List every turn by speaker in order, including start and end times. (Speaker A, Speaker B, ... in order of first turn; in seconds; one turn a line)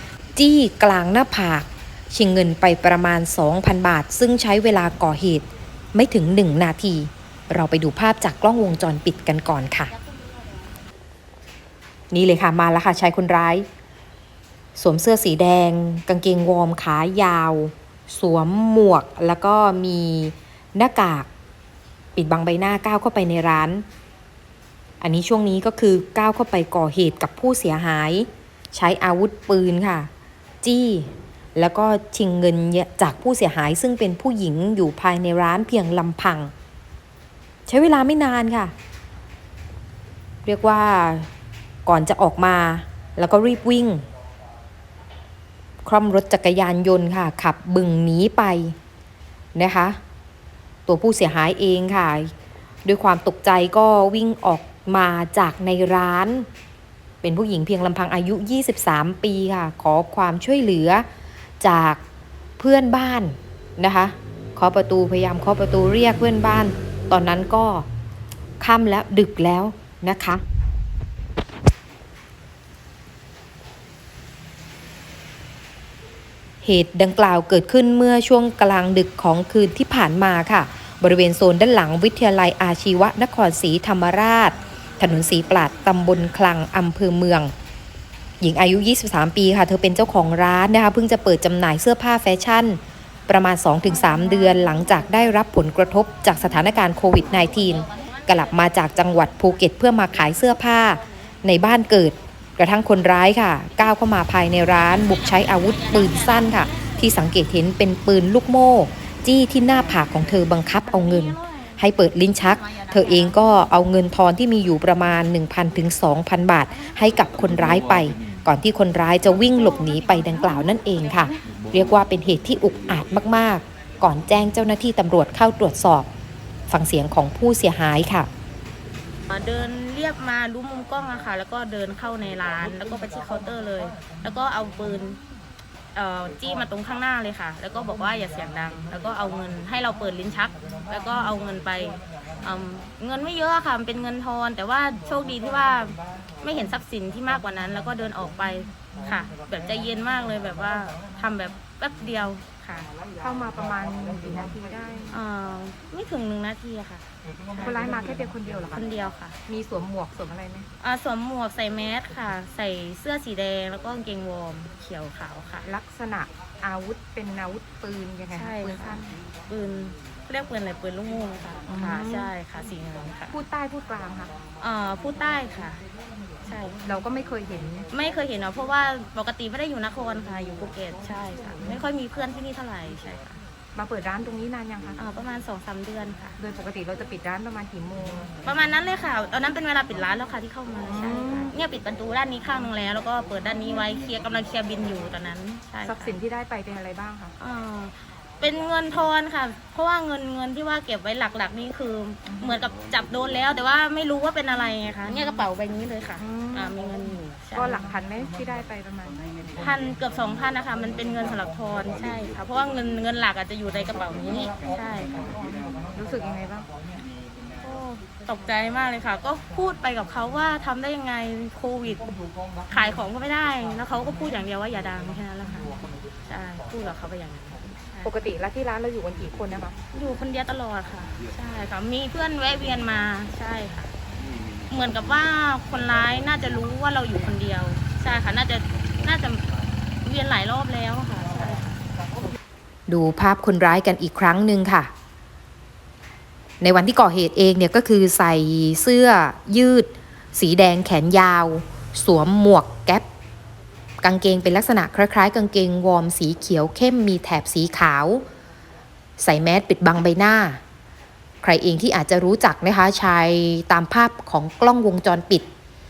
Speaker A: 0.3-9.9
Speaker A: 12.1-13.7
Speaker A: 14.8-21.3
Speaker A: 22.1-23.8
Speaker A: 25.0-30.1
Speaker A: 30.6-36.5
Speaker A: 37.7-38.7
Speaker A: 40.4-41.3
Speaker A: 41.9-44.0
Speaker A: 45.8-48.7
Speaker A: 49.5-50.0
Speaker A: 50.9-52.3
Speaker A: 52.8-56.5
Speaker A: 57.2-61.0
Speaker A: 61.6-62.0
Speaker A: 62.6-67.9
Speaker A: 68.6-70.4
Speaker A: 76.6-87.5
Speaker A: 88.4-126.1
Speaker B: 97.6-98.5
Speaker B: 104.8-107.0
Speaker A: 126.7-128.3
Speaker B: 129.3-135.2
Speaker B: 135.9-152.9
Speaker C: 153.2-155.1
Speaker B: 155.1-158.2
Speaker C: 157.6-158.8
Speaker B: 158.7-159.4
Speaker C: 159.5-160.7
Speaker B: 160.8-165.7
Speaker C: 165.6-169.1
Speaker B: 168.3-173.3
Speaker C: 171.7-172.3
Speaker C: 173.3-174.3
Speaker B: 174.6-175.8
Speaker B: 176.4-176.8
Speaker C: 176.8-177.9
Speaker B: 177.9-183.4
Speaker C: 183.7-185.0
Speaker B: 185.0-186.4
Speaker C: 186.4-188.3
Speaker B: 188.4-196.2
Speaker C: 190.8-191.5
Speaker C: 195.8-197.3
Speaker B: 197.4-207.8
Speaker C: 206.2-206.8
Speaker C: 207.5-209.2
Speaker B: 209.6-215.3
Speaker C: 215.9-216.7
Speaker B: 217.6-222.1
Speaker B: 222.7-228.1
Speaker C: 228.0-229.8
Speaker B: 229.9-233.9
Speaker B: 234.7-239.4
Speaker B: 240.0-241.8
Speaker A: 242.9-244.9
Speaker A: 246.6-253.1
Speaker A: 254.0-258.2
Speaker A: 259.2-260.6
Speaker A: 261.4-265.4